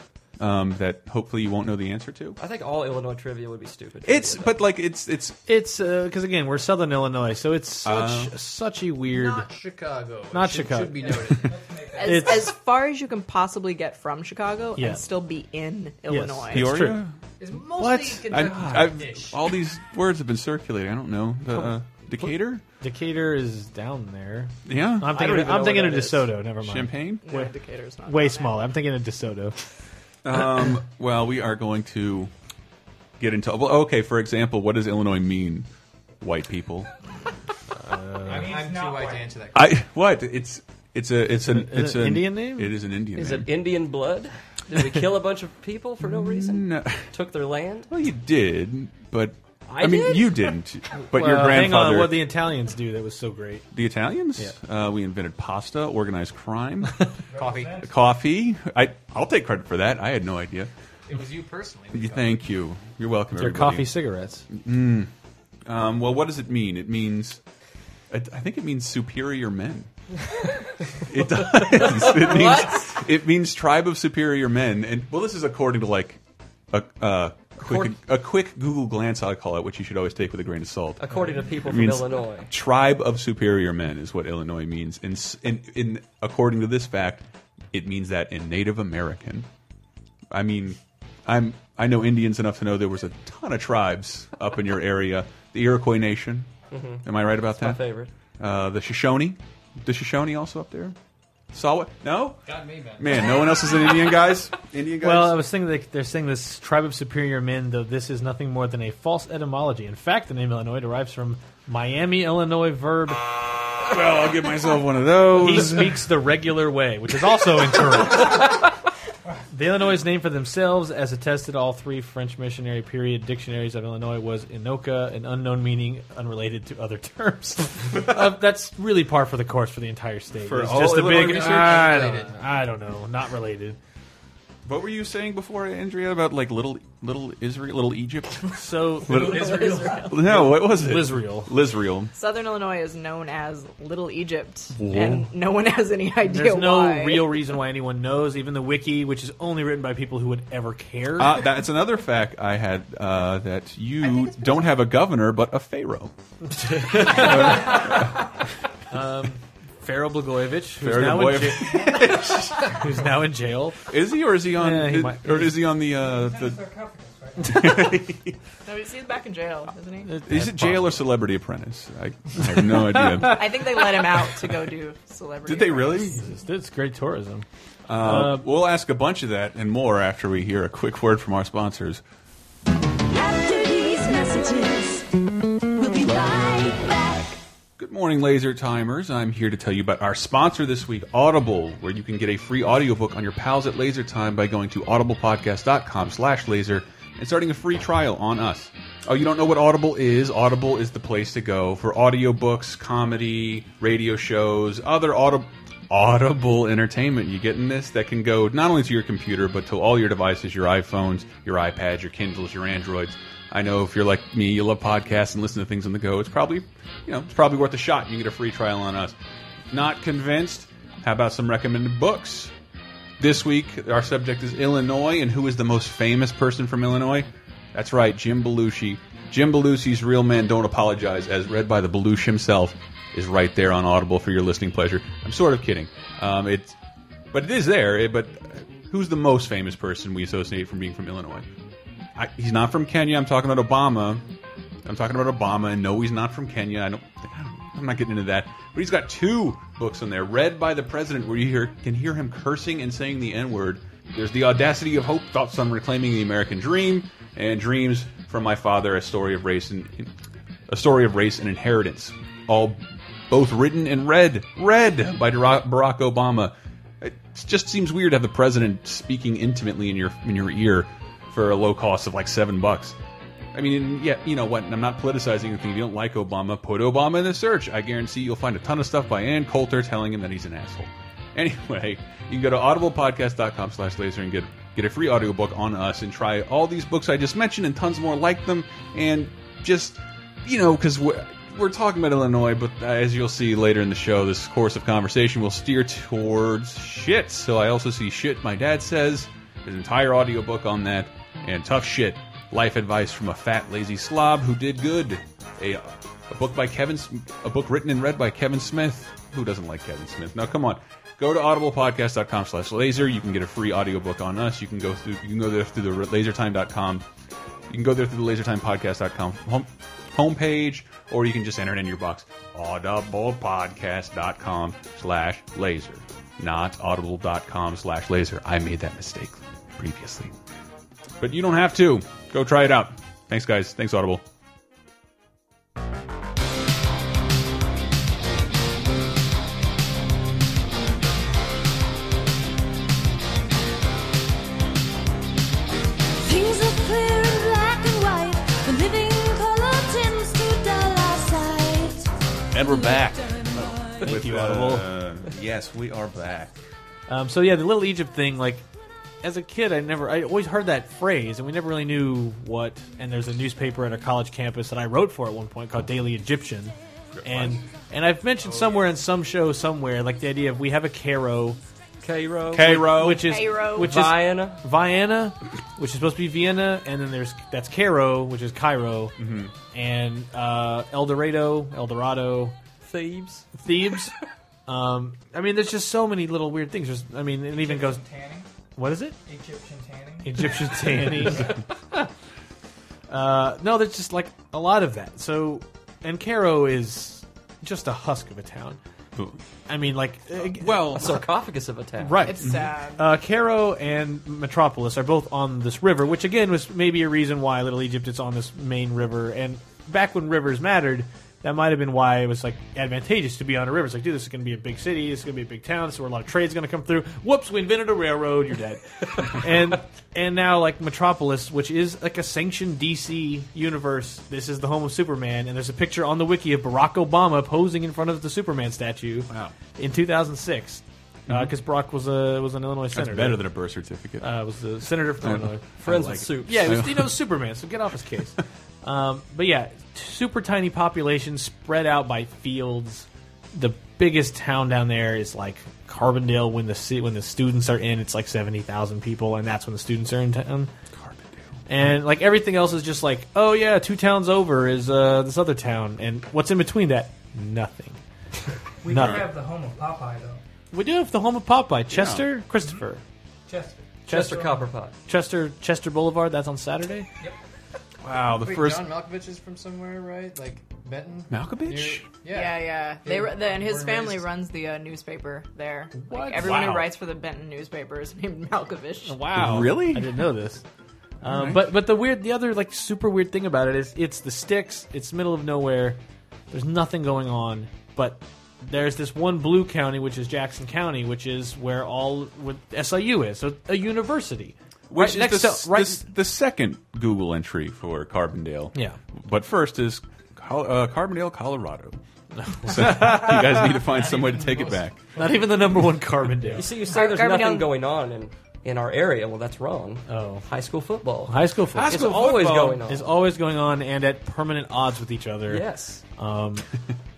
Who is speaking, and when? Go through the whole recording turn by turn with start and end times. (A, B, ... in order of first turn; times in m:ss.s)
0:00.4-0:02.4 A
0:02.4-0:04.6 B
0:04.0-0:05.4 A
0:05.5-0:09.5 C
0:07.8-0:08.3 A
0:09.1-0:11.6 D
0:10.3-0:11.4 C
0:11.4-0:12.4 E
0:11.9-0:16.7 F
0:12.0-0:12.5 C
0:14.8-0:15.0 C
0:16.1-0:17.0 C
0:16.5-0:17.2 A
0:17.4-0:19.4 D
0:17.8-0:18.2 C
0:17.8-0:22.6 A
0:21.5-0:27.5 C
0:24.7-0:25.2 A
0:25.1-0:26.4 B
0:26.6-0:27.2 A
0:27.2-0:28.7 F
0:28.0-0:29.6 C
0:30.2-0:32.3 A
0:33.2-0:35.7 A
0:36.2-0:36.9 A
0:37.8-0:38.5 C
0:38.2-0:39.8 D
0:38.3-0:39.4 E
0:39.5-0:43.6 A
0:41.4-0:42.8 C
0:43.2-0:47.9 B
0:46.0-0:47.1 A
0:47.9-0:52.3 A
0:49.8-0:50.3 C
0:51.1-0:53.7 C
0:53.7-0:57.1 A
0:57.3-0:57.9 E
0:57.3-0:57.9 D
0:57.8-1:00.7 A
1:01.1-1:02.4 D
1:01.9-1:03.9 A
1:03.4-1:04.5 C
1:04.5-1:05.1 A
1:05.7-1:07.4 A
1:08.1-1:09.9 A
1:11.1-1:29.5 A
1:11.5-1:13.0 B
1:17.6-1:17.9 B
1:21.0-1:22.5 B
1:30.3-1:36.5 A
1:36.7-1:38.1 B
1:37.0-1:37.8 A
1:38.4-1:41.0 A
1:41.5-1:42.4 A
1:42.5-1:43.2 D
1:43.0-1:45.4 A
1:45.0-1:53.2 C
1:53.9-1:56.0 A
1:55.4-1:58.6 C
1:59.5-2:13.8 C
2:10.4-2:12.2 A
2:10.8-2:12.4 D
2:14.6-2:22.1 A
2:18.5-2:21.5 C
2:19.3-2:20.1 F
2:19.5-2:19.9 D
2:22.1-2:27.4 F
2:24.8-2:25.3 A
2:26.2-2:31.5 C
2:31.2-2:36.1 A
2:36.5-2:38.0 C
2:36.8-2:38.3 A
2:38.9-2:43.8 C
2:40.8-2:42.8 A
2:41.7-2:42.5 E
2:43.9-2:46.6 A
2:44.5-2:45.7 C
2:46.0-2:48.0 E
2:47.4-2:48.4 A
2:48.6-2:50.2 F
2:50.0-2:51.0 C
2:50.3-2:53.7 A
2:52.6-2:53.3 C
2:53.1-2:56.2 F
2:55.4-2:56.2 A
2:56.2-2:57.4 C
2:57.9-3:02.0 A
2:58.0-2:58.4 C
3:03.1-3:05.1 G
3:05.8-3:07.4 G
3:06.1-3:06.7 A
3:07.8-3:39.2 A
3:39.7-3:42.5 A
3:43.2-3:56.8 A
3:57.3-4:01.5 A
4:02.2-4:04.3 A
4:04.8-4:20.1 A
4:20.7-4:33.0 A
4:33.5-5:17.1 A
5:17.7-5:30.3 A
5:31.2-5:34.2 A
5:46.2-5:54.0 G
5:52.5-5:56.6 A
5:54.0-5:54.9 C
5:57.1-5:58.6 C
5:59.2-6:11.6 C
6:07.1-6:07.6 A
6:08.4-6:08.9 D
6:12.0-6:12.9 B
6:12.5-6:13.4 A
6:12.6-6:19.2 C
6:13.1-6:14.0 F
6:13.8-6:14.6 B
6:19.2-6:19.5 A
6:19.7-6:22.6 C
6:22.8-6:23.5 B
6:23.6-6:24.1 C
6:24.7-6:28.0 C
6:27.5-6:28.5 E
6:28.8-6:29.2 C
6:29.3-6:31.5 E
6:30.2-6:32.1 C
6:33.1-6:38.8 C
6:39.7-6:41.1 C
6:40.5-6:41.2 A
6:41.0-6:42.4 B
6:42.0-7:13.5 C
6:42.2-6:43.1 F
7:12.9-7:14.4 A
7:14.2-7:30.7 C
7:15.2-7:15.5 A
7:15.8-7:16.8 B
7:16.6-7:17.2 A
7:31.0-7:31.4 A
7:31.7-7:38.0 C
7:38.8-7:40.4 E
7:38.9-7:39.2 A
7:38.9-7:39.2 C
7:40.7-7:43.0 C
7:41.9-7:42.3 A
7:43.5-7:44.7 E
7:44.1-7:47.1 C
7:44.1-7:44.9 B
7:48.0-7:48.9 A
7:48.3-7:54.3 D
7:51.3-7:52.1 A
7:52.3-7:59.3 F
7:55.9-7:56.9 C
7:59.0-8:00.6 C
7:59.3-8:00.1 A
8:01.2-8:06.0 C
8:01.3-8:01.7 A
8:06.5-8:16.1 C
8:14.9-8:22.0 A
8:22.4-8:23.8 C
8:22.6-8:25.0 A
8:24.0-8:24.7 D
8:25.2-8:26.7 C
8:26.5-8:33.1 B
8:26.8-8:27.8 F
8:30.1-8:30.4 C
8:31.3-8:35.6 C
8:31.8-8:32.8 A
8:35.5-8:36.0 B
8:36.2-8:36.7 C